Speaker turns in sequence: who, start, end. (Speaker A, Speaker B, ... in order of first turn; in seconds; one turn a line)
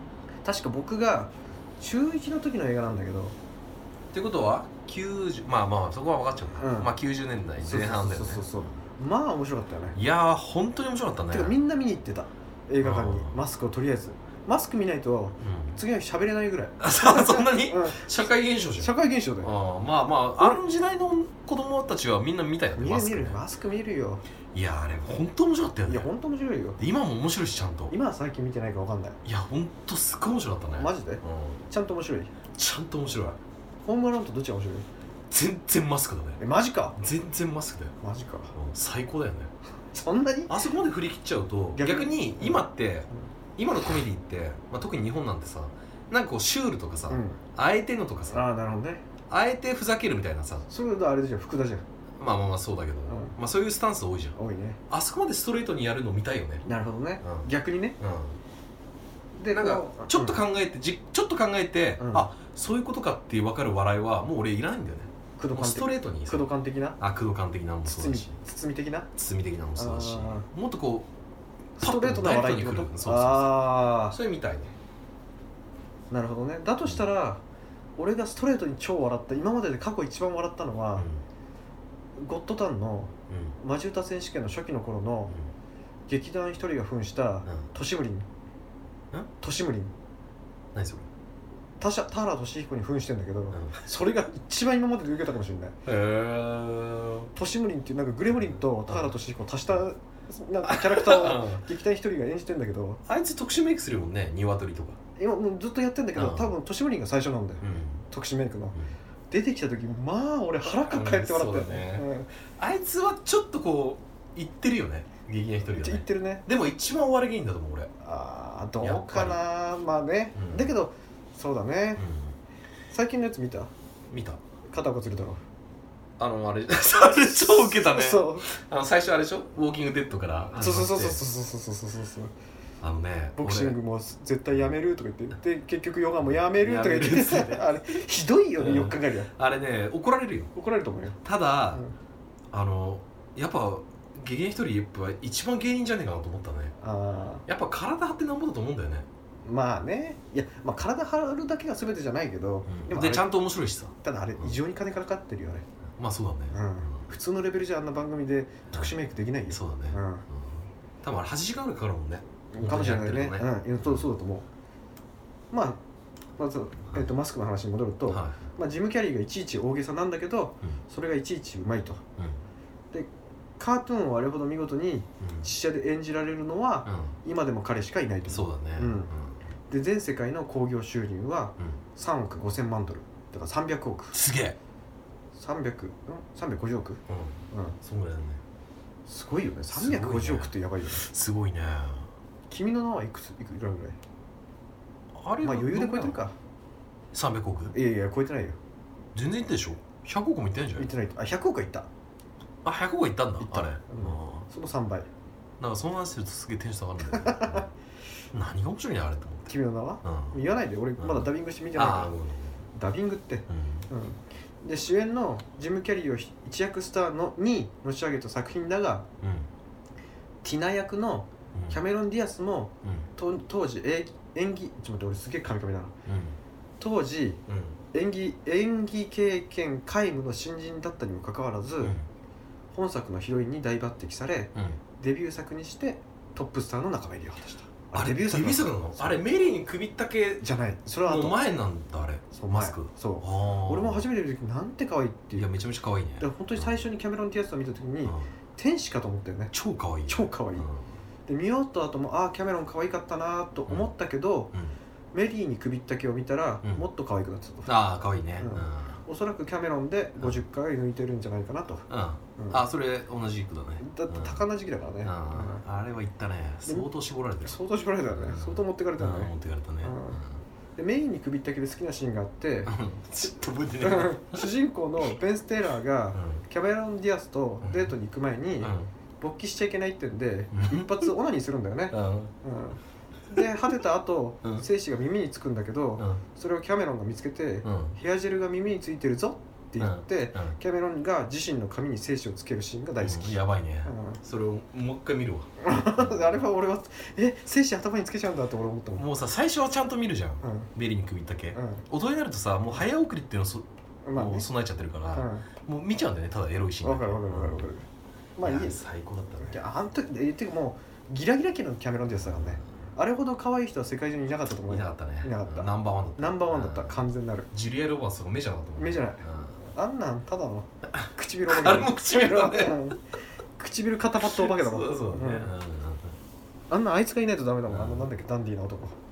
Speaker A: 0.5-3.4
Speaker B: 4.1-8.5
Speaker A: 6.6-6.9
Speaker A: 7.6-10.0
Speaker B: 9.9-11.6
Speaker A: 11.3-18.1
Speaker B: 12.8-13.4
Speaker B: 15.4-15.8
Speaker B: 16.8-23.4
Speaker A: 18.8-19.5
Speaker A: 22.8-24.2
Speaker B: 24.5-26.1
Speaker A: 25.9-26.8
Speaker B: 26.8-27.9
Speaker A: 27.9-29.2
Speaker B: 29.2-31.6
Speaker A: 30.7-32.3
Speaker B: 32.5-33.4
Speaker A: 33.8-34.9
Speaker B: 35.3-36.4
Speaker A: 36.4-37.0
Speaker B: 37.0-38.0
Speaker A: 38.0-38.5
Speaker B: 38.5-39.5
Speaker A: 39.9-40.6
Speaker B: 40.5-48.4
Speaker A: 41.8-42.6
Speaker A: 47.1-47.4
Speaker A: 48.3-49.0
Speaker B: 49.3-50.7
Speaker A: 50.7-51.8
Speaker B: 52.2-54.4
Speaker A: 53.1-53.4
Speaker A: 54.4-54.8
Speaker B: 54.9-56.6
Speaker A: 56.6-58.0
Speaker B: 57.2-58.4
Speaker A: 59.4-60.4
Speaker B: 59.5-66.5
Speaker A: 62.0-62.3
Speaker A: 65.4-67.0
Speaker B: 67.0-68.4
Speaker A: 67.9-69.1
Speaker B: 69.2-71.1
Speaker A: 69.8-70.5
Speaker A: 71.8-74.2
Speaker B: 71.8-74.7
Speaker A: 76.1-77.4
Speaker A: 78.0-81.1
Speaker B: 81.0-81.2
Speaker A: 82.2-85.3
Speaker B: 83.3-83.6
Speaker A: 86.1-88.3
Speaker A: 89.4-89.9
Speaker B: 90.7-91.1
Speaker A: 91.8-95.8
Speaker B: 93.5-93.8
Speaker B: 95.9-97.3
Speaker A: 97.3-103.0
Speaker B: 98.3-99.2
Speaker B: 100.6-101.6
Speaker B: 103.1-105.0
Speaker A: 105.2-108.8
Speaker B: 106.2-106.5
Speaker B: 107.6-108.0
Speaker A: 109.3-112.3
Speaker B: 110.8-112.1
Speaker B: 112.6-117.9
Speaker A: 115.7-116.5
Speaker A: 118.0-122.0
Speaker B: 118.8-119.4
Speaker B: 120.3-120.7
Speaker B: 122.0-122.4
Speaker A: 122.9-123.7
Speaker B: 124.1-124.4
Speaker A: 124.7-125.4
Speaker B: 126.2-131.2
Speaker A: 127.0-128.5
Speaker A: 130.6-132.3
Speaker B: 132.8-133.8
Speaker A: 133.4-139.3
Speaker B: 136.2-137.8
Speaker B: 138.6-140.5
Speaker A: 140.6-141.2
Speaker B: 141.2-141.8
Speaker B: 142.5-146.7
Speaker A: 146.8-147.5
Speaker B: 147.5-149.1
Speaker A: 149.4-153.3
Speaker B: 152.7-154.6
Speaker A: 154.0-155.7
Speaker B: 156.0-157.0
Speaker A: 156.5-160.2
Speaker B: 159.5-164.1
Speaker A: 162.5-164.5
Speaker A: 165.5-165.8
Speaker A: 166.4-172.0
Speaker B: 168.1-168.4
Speaker A: 172.9-179.1
Speaker B: 175.2-175.5
Speaker B: 176.9-177.1
Speaker B: 178.3-179.4
Speaker A: 179.7-184.2
Speaker B: 184.1-184.6
Speaker A: 185.3-187.0
Speaker B: 187.1-188.4
Speaker A: 187.5-187.8
Speaker A: 189.1-191.1
Speaker B: 189.7-192.1
Speaker A: 192.5-194.0
Speaker B: 195.2-196.2
Speaker A: 195.4-196.4
Speaker B: 197.1-197.8
Speaker A: 197.7-198.6
Speaker B: 199.2-200.9
Speaker A: 200.8-201.9
Speaker B: 202.6-204.5
Speaker A: 203.4-205.1
Speaker B: 205.6-207.7
Speaker A: 207.1-207.7
Speaker B: 208.3-209.5
Speaker A: 209.5-212.1
Speaker B: 210.0-210.4
Speaker B: 211.0-212.6
Speaker A: 212.8-219.1
Speaker B: 213.5-213.9
Speaker B: 219.2-219.5
Speaker A: 220.4-225.9
Speaker B: 226.1-226.4
Speaker A: 226.8-227.4
Speaker B: 227.5-227.8
Speaker A: 227.9-231.9
Speaker B: 231.8-232.1
Speaker A: 232.7-239.2
Speaker B: 237.9-240.5
Speaker A: 240.4-241.4
Speaker B: 241.1-244.1
Speaker A: 242.3-245.5
Speaker B: 245.4-246.8
Speaker A: 246.2-249.5
Speaker B: 249.5-250.9
Speaker A: 250.1-250.7
Speaker A: 251.3-254.5
Speaker A: 255.1-257.7
Speaker B: 257.7-259.0
Speaker A: 258.4-262.6
Speaker B: 261.9-264.4
Speaker A: 263.8-265.6
Speaker B: 265.0-267.6
Speaker A: 267.4-270.2
Speaker B: 268.1-270.4
Speaker A: 270.8-272.7
Speaker B: 272.7-274.5
Speaker A: 273.8-294.2
Speaker B: 276.1-276.4
Speaker B: 277.6-277.9
Speaker B: 278.6-278.9
Speaker B: 280.5-281.1
Speaker B: 281.9-282.3
Speaker B: 287.6-288.0
Speaker B: 289.8-290.6
Speaker B: 293.0-296.3
Speaker A: 295.6-299.1
Speaker B: 299.0-307.7
Speaker A: 300.4-300.7
Speaker A: 301.5-301.9
Speaker A: 304.1-304.5
Speaker A: 305.1-305.5
Speaker A: 306.8-307.9
Speaker A: 308.4-308.8
Speaker B: 308.4-309.6
Speaker A: 309.4-317.5
Speaker B: 312.2-312.6
Speaker B: 314.7-319.6
Speaker A: 318.8-323.0
Speaker B: 321.0-323.0
Speaker A: 323.6-325.5
Speaker B: 324.2-326.2
Speaker A: 326.7-328.9
Speaker B: 327.7-328.1